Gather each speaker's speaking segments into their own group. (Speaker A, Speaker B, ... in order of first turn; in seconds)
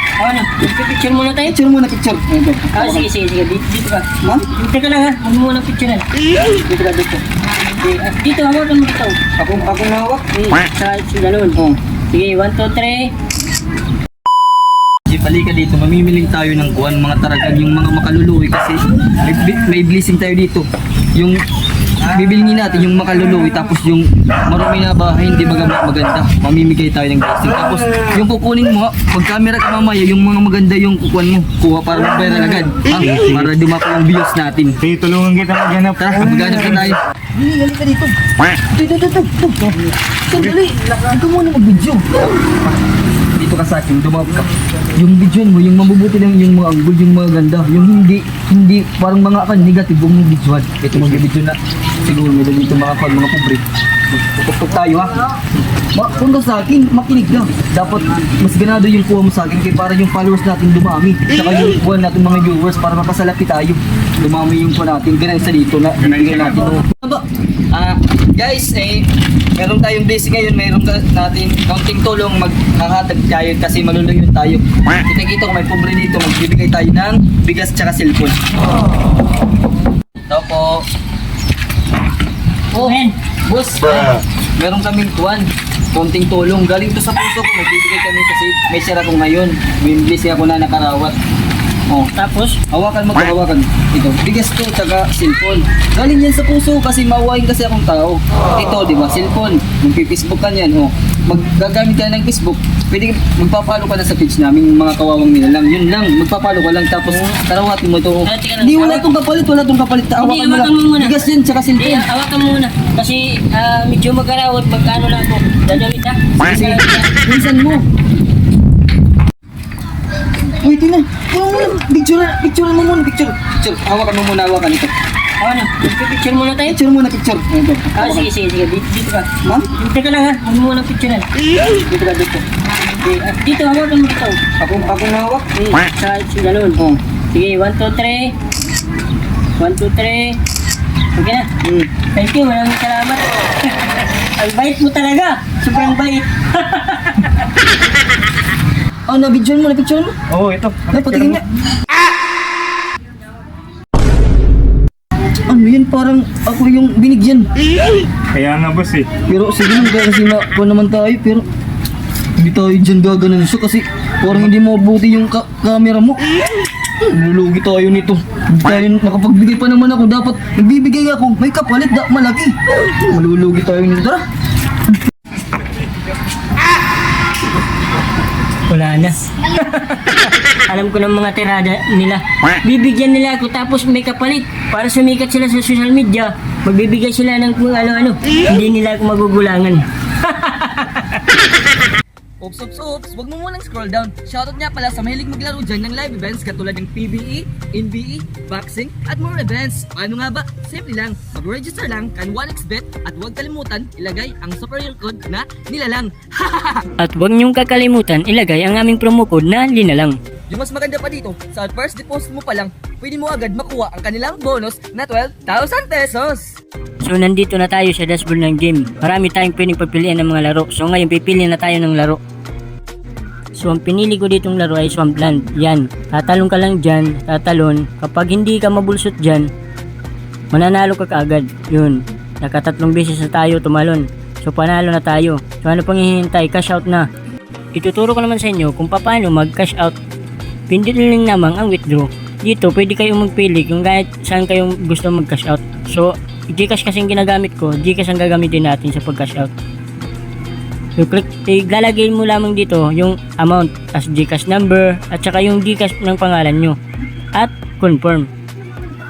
Speaker A: 0.2-1.5, 2.7-6.1, 6.7-9.2, 10.3-13.1, 82.7-83.1, 92.2-92.6, 108.2-109.1, 110.2-117.1, 125.4-126.8, 127.9-131.3, 132.8-134.4, 135.5-138.3, 139.6-140.4, 141.1-141.5, 142.1-147.4, 178.7-191.2, 207.0-210.2, 217.0-222.2, 223.5-229.5, 230.5-237.1, 237.7-239.9, 240.7-249.5, 251.0-256.8, 257.4-258.3
Speaker B: 1.4-3.1, 4.2-4.5, 9.4-10.3, 15.1-21.4, 22.0-34.8, 36.0-38.1, 38.7-42.2, 43.4-53.6, 54.1-55.1, 55.9-78.4, 80.3-80.8, 82.7-91.1, 92.7-112.1, 116.4-117.8, 120.5-124.9, 126.6-128.3, 129.4-129.7, 131.9-132.4, 134.6-135.5, 141.6-141.9, 149.1-150.2, 150.9-151.4, 155.5-157.5, 159.3-161.4, 162.4-166.2, 167.0-174.2, 192.4-206.8, 210.5-216.5
Speaker C: 33.0-33.5, 34.8-36.9, 66.0-66.7, 150.3-151.4, 158.3-159.1